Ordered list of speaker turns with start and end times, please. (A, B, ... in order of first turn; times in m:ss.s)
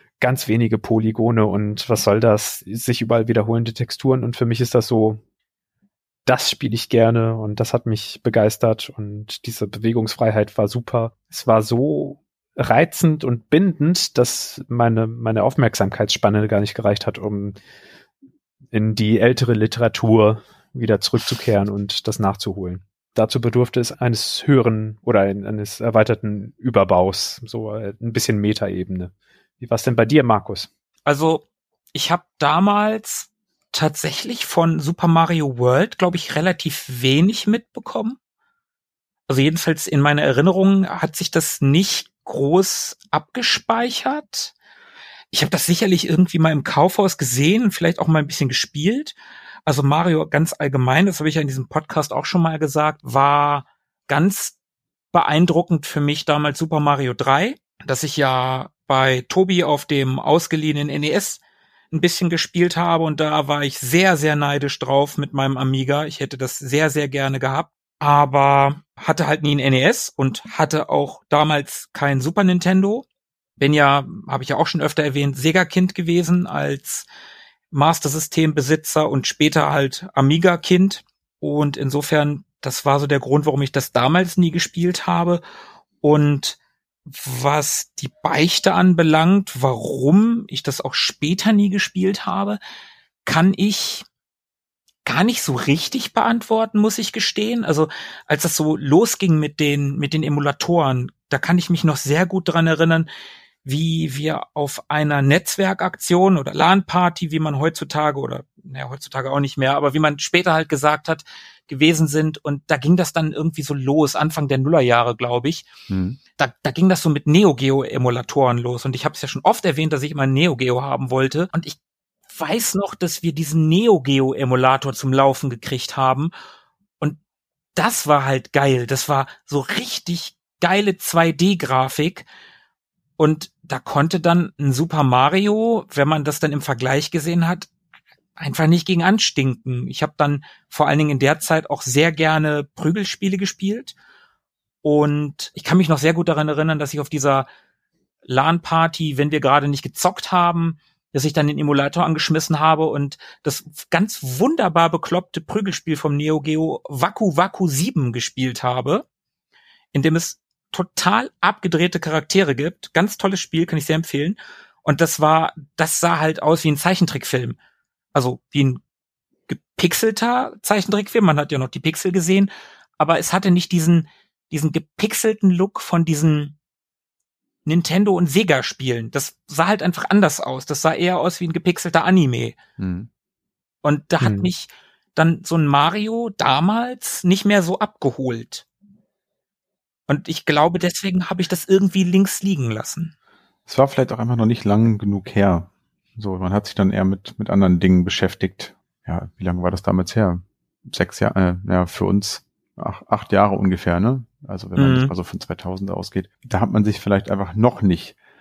0:00.2-0:05.2 A
0:06.3-0:17.6 A
0:18.7-0:30.7 A
0:31.1-0:31.4 B
0:31.9-0:38.2 B
0:39.3-0:44.5 B
0:45.3-0:54.6 B
0:55.1-1:01.4 B
1:01.9-1:13.1 B
1:13.6-1:17.1 B
1:17.7-1:25.4 B
1:26.0-1:32.6 B
1:33.3-1:34.0 B
1:35.1-1:43.1 B
1:43.6-1:55.7 B
1:55.9-1:56.2 C
1:56.4-2:01.8 B
2:02.3-2:06.3 B
2:07.8-2:12.3 B
2:13.2-2:17.7 B
2:18.4-2:24.0 B
2:24.8-2:27.5 B
2:28.3-2:39.0 B
2:39.9-2:47.6 B
2:48.2-2:48.8 B
2:49.5-2:56.6 B
2:57.7-3:02.6 B
3:02.8-3:03.1 C
3:03.8-3:08.6 B
3:04.2-3:04.5 A
3:10.1-3:13.1 B
3:13.7-3:28.2 C
3:24.8-3:25.1 B